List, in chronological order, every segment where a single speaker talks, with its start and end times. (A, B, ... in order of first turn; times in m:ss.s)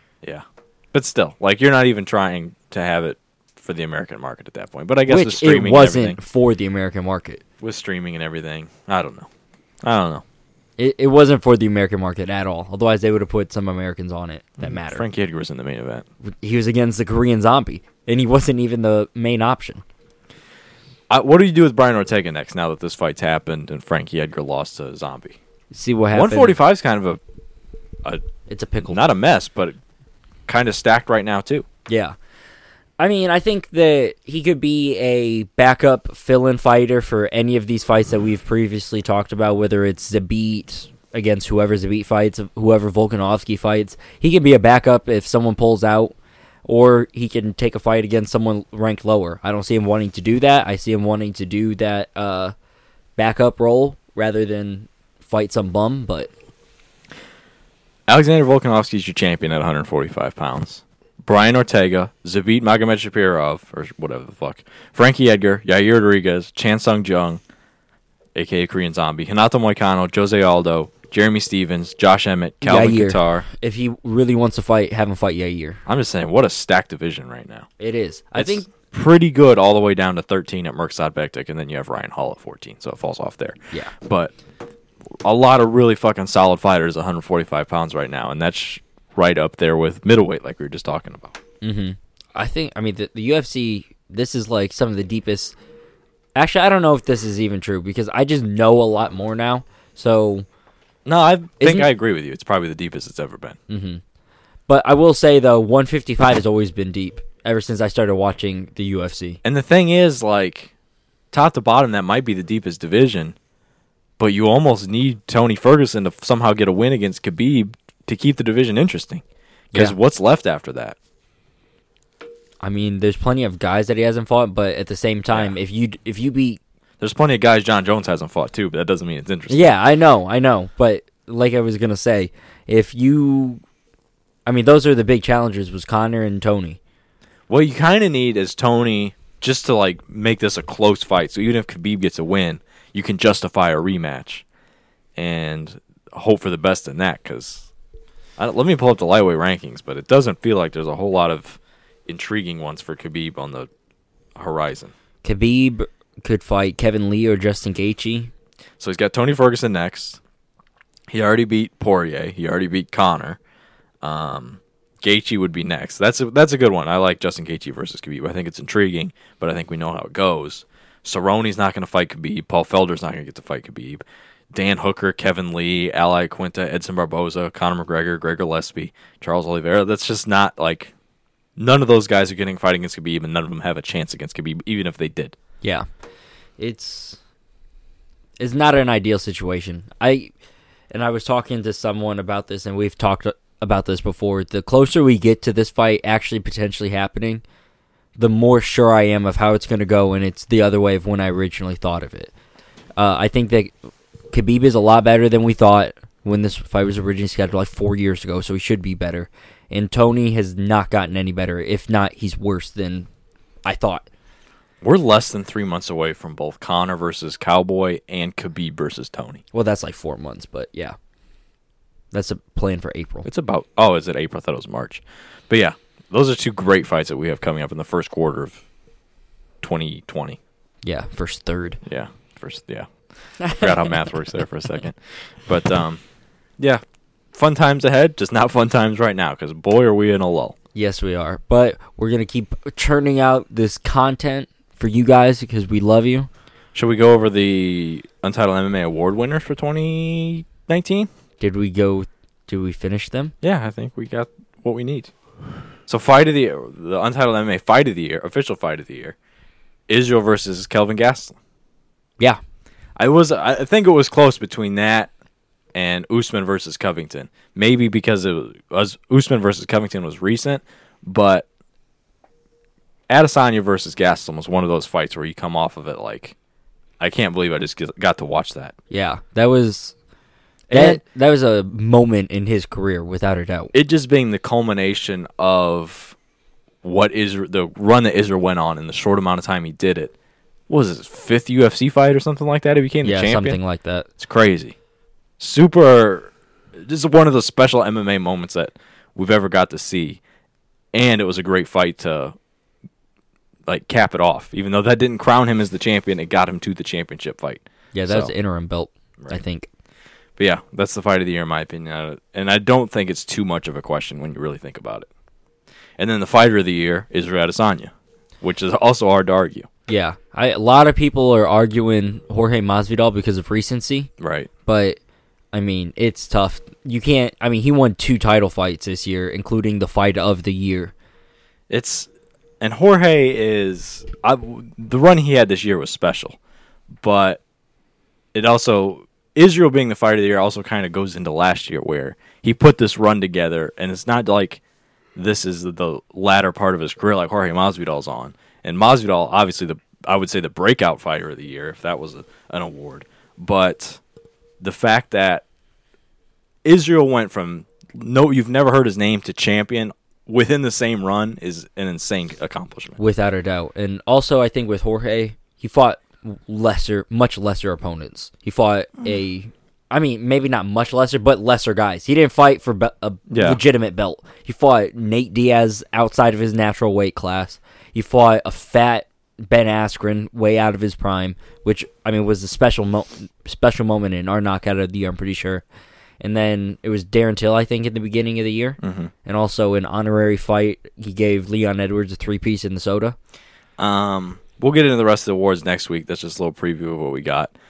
0:00.2-0:06.2 A
0:05.1-0:07.4 B
0:07.6-0:09.3 A
0:09.8-0:10.2 A
0:10.8-0:15.0 B
0:14.6-0:16.0 A
0:16.2-0:19.8 B
0:21.1-0:25.4 A
0:25.7-0:26.6 B
0:26.1-0:27.2 A
0:28.5-0:29.0 B
0:28.8-0:29.8 A
0:30.5-0:31.6 A
0:31.9-0:32.2 B
0:33.0-0:52.5 B
0:53.2-0:56.3 B
0:58.1-1:07.4 A
1:08.3-1:13.5 A
1:12.6-1:15.8 B
1:15.8-1:17.7 A
1:17.8-1:18.7 B
1:18.4-1:24.3 A
1:25.2-1:31.4 A
1:31.6-1:35.5 B
1:36.4-1:40.4 B
1:41.0-1:43.6 A
1:41.6-1:41.9 B
1:43.7-1:44.0 B
1:44.7-1:49.4 B
1:49.4-1:50.7 A
1:51.3-1:53.3 A
1:54.2-2:01.0 A
2:02.6-2:06.6 B
2:07.0-2:09.7 A
2:09.5-2:13.6 B
2:14.4-2:16.8 B
2:17.5-2:24.4 A
2:25.2-2:27.7 A
2:28.4-2:33.7 A
2:34.4-2:34.9 A
2:35.2-2:38.3 B
2:38.8-2:40.2 A
2:41.1-2:43.4 A
2:44.0-3:00.9 A
3:01.6-3:05.3 A
3:06.6-3:07.2 B
3:08.4-3:10.3 B
3:10.9-3:17.4 B
3:18.2-3:22.3 B
3:23.0-3:23.7 B
3:24.3-3:33.1 B
3:33.6-3:34.0 B
3:34.8-3:39.4 A
3:39.5-3:41.0 B
3:42.1-3:43.3 B
3:43.2-3:48.6 A
3:49.6-3:50.4 A
3:50.8-3:51.8 B
3:51.8-3:56.0 A
3:53.4-3:53.8 B
3:57.3-4:00.5 A
4:00.7-4:06.3 B
4:06.7-4:11.1 A
4:11.4-4:13.3 B
4:13.4-4:15.1 A
4:15.9-4:19.2 A
4:19.9-4:21.3 A
4:23.0-4:25.1 A
4:25.7-4:31.4 A
4:33.1-4:36.3 A
4:37.0-4:38.7 A
4:38.9-4:39.9 B
4:40.7-4:41.0 A
4:40.7-4:43.7 B
4:43.7-4:46.1 A
4:46.8-4:50.1 A
4:50.7-4:53.6 A
4:53.0-4:54.1 B
4:54.2-4:54.7 A
4:55.4-5:00.2 A
5:00.9-5:02.3 A
5:03.7-5:08.3 A
5:07.9-5:09.7 B
5:10.4-5:15.1 A
5:16.0-5:19.7 A
5:19.9-5:24.1 B
5:24.2-5:24.5 A
5:24.6-5:25.0 B
5:25.5-5:30.9 B
5:31.7-5:32.1 A
5:32.6-5:36.4 A
5:37.0-5:37.4 A
5:38.3-5:44.6 A
5:45.2-5:54.0 A
5:54.6-5:55.4 A
5:56.6-6:03.0 A
6:03.0-6:25.6 B
6:13.3-6:13.6 A
6:26.2-6:33.2 B
6:28.8-6:29.1 A
6:33.8-6:37.5 A